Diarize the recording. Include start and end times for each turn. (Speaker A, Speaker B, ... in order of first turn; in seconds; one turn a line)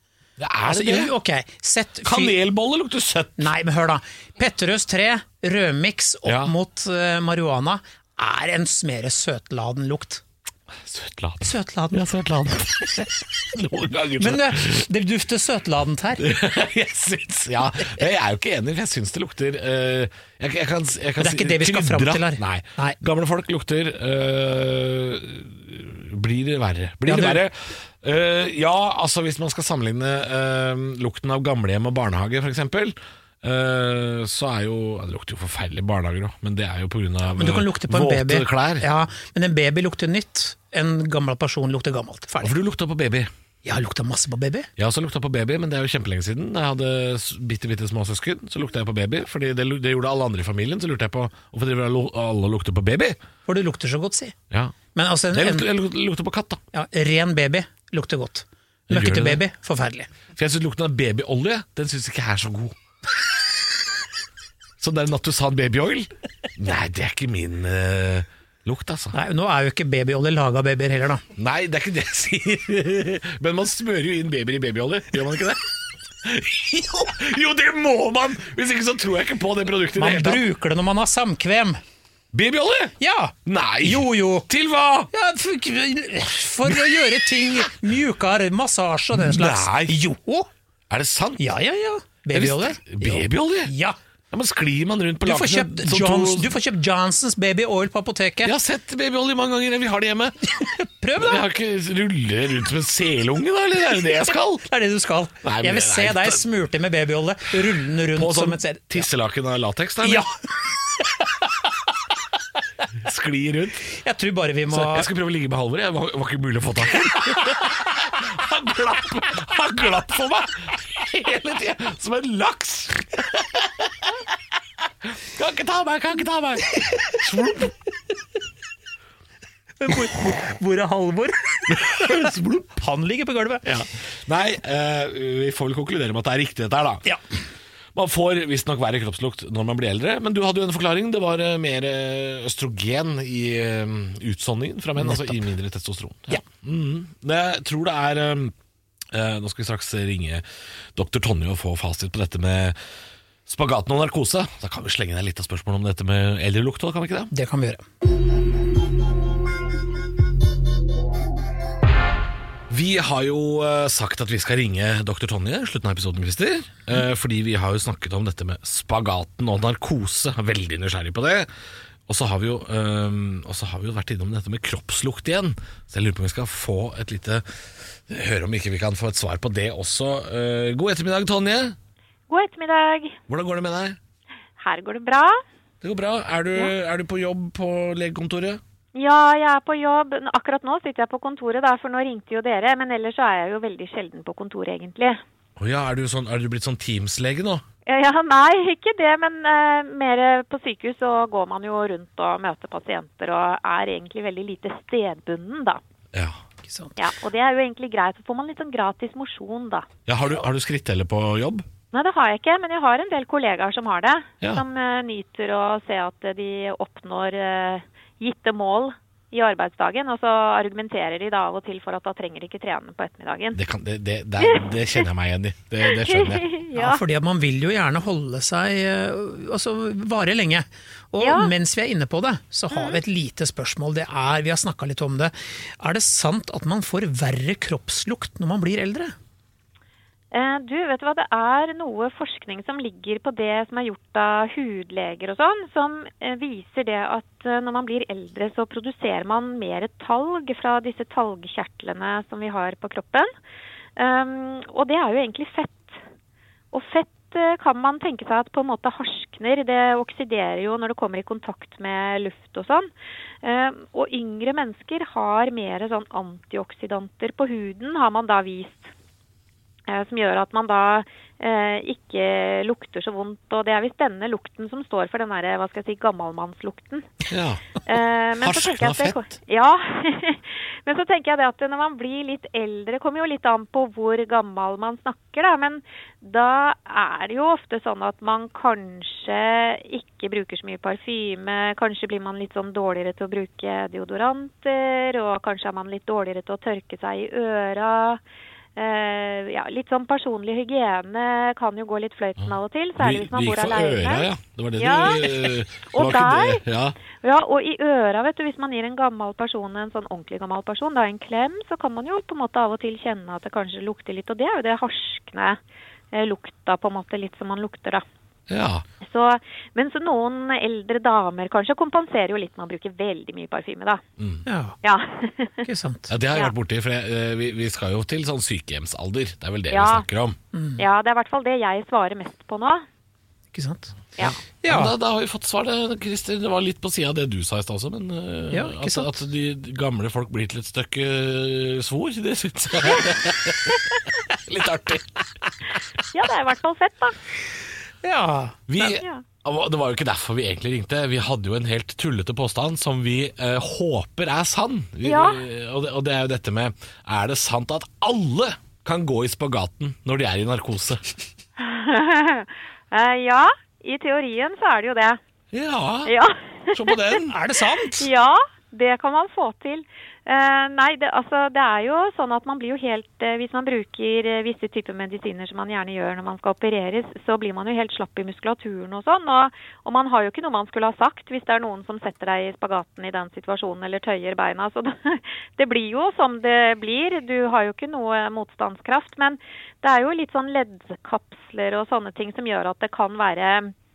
Speaker A: 0.4-1.1
Speaker B: 0.7-2.4
Speaker A: 2.0-3.5
Speaker B: 3.4-10.2
Speaker A: 6.2-6.5
Speaker A: 10.8-14.8
Speaker B: 11.4-12.0
Speaker B: 14.2-16.3
Speaker A: 16.2-38.9
Speaker B: 21.2-23.0
Speaker B: 27.1-27.4
Speaker B: 37.4-42.5
Speaker A: 42.4-43.3
Speaker B: 43.6-44.7
Speaker A: 44.8-53.2
Speaker B: 53.5-54.4
Speaker B: 54.9-55.7
Speaker A: 55.3-56.6
Speaker B: 56.7-60.1
Speaker A: 58.9-59.4
Speaker A: 60.4-62.8
Speaker A: 64.8-69.2
Speaker B: 69.1-71.2
Speaker A: 71.3-80.5
Speaker B: 80.0-81.8
Speaker A: 82.3-82.9
Speaker B: 83.0-84.5
Speaker A: 83.5-85.1
Speaker B: 85.1-90.5
Speaker A: 86.7-87.0
Speaker A: 89.1-90.0
Speaker A: 90.9-91.4
Speaker B: 91.4-94.0
Speaker A: 92.3-93.7
Speaker A: 94.3-96.5
Speaker B: 95.2-98.5
Speaker A: 98.4-100.5
Speaker B: 100.5-101.4
Speaker A: 101.2-104.7
Speaker B: 104.6-109.1
Speaker A: 105.4-106.4
Speaker A: 108.1-110.3
Speaker B: 110.0-110.3
Speaker A: 112.9-113.8
Speaker B: 113.9-115.1
Speaker A: 114.7-124.3
Speaker A: 124.9-127.8
Speaker B: 129.8-133.7
Speaker A: 131.7-132.7
Speaker A: 133.7-137.1
Speaker A: 137.9-148.6
Speaker B: 145.0-145.4
Speaker A: 149.1-150.4
Speaker A: 150.9-152.8
Speaker A: 153.5-157.3
Speaker B: 157.3-157.8
Speaker A: 162.7-171.5
Speaker A: 172.1-177.4
Speaker A: 178.1-181.8
Speaker C: 182.3-183.2
Speaker A: 183.3-184.0
Speaker C: 184.6-185.4
Speaker A: 185.8-188.6
Speaker C: 188.9-195.2
Speaker A: 195.6-197.6
Speaker C: 197.9-205.8
Speaker A: 206.1-206.4
Speaker B: 206.7-207.0
Speaker C: 207.0-209.9
Speaker A: 210.1-211.7
Speaker C: 211.9-223.6
Speaker A: 223.5-226.5
Speaker C: 224.4-225.0
Speaker C: 225.8-227.0
Speaker B: 226.8-239.2
Speaker C: 231.2-231.5
Speaker C: 232.7-233.0
Speaker C: 240.3-253.3
Speaker C: 254.0-256.0
Speaker C: 256.7-262.9
Speaker C: 263.4-268.9
Speaker C: 269.9-277.1
Speaker A: 277.3-277.7
Speaker C: 277.9-298.2
Speaker A: 278.4-279.2
Speaker C: 298.8-306.6
Speaker A: 302.4-307.0
Speaker C: 307.2-315.6
Speaker C: 316.1-318.0
Speaker A: 318.5-318.9
Speaker C: 319.0-324.0
Speaker A: 324.2-324.4
Speaker B: 324.5-324.8
Speaker C: 324.8-325.7
Speaker B: 325.6-326.1
Speaker A: 326.1-330.4
Speaker C: 329.7-330.1
Speaker B: 330.5-330.8
Speaker C: 330.8-332.9
Speaker B: 333.5-333.9
Speaker A: 334.2-345.3
Speaker B: 334.6-334.9
Speaker B: 338.5-339.1
Speaker C: 346.1-347.2
Speaker B: 348.0-348.8
Speaker A: 348.7-361.0
Speaker C: 348.8-349.2
Speaker C: 355.0-355.4
Speaker C: 361.6-365.2
Speaker A: 365.5-366.1
Speaker C: 366.1-367.2
Speaker A: 366.7-367.4
Speaker B: 367.3-368.1
Speaker C: 367.9-393.7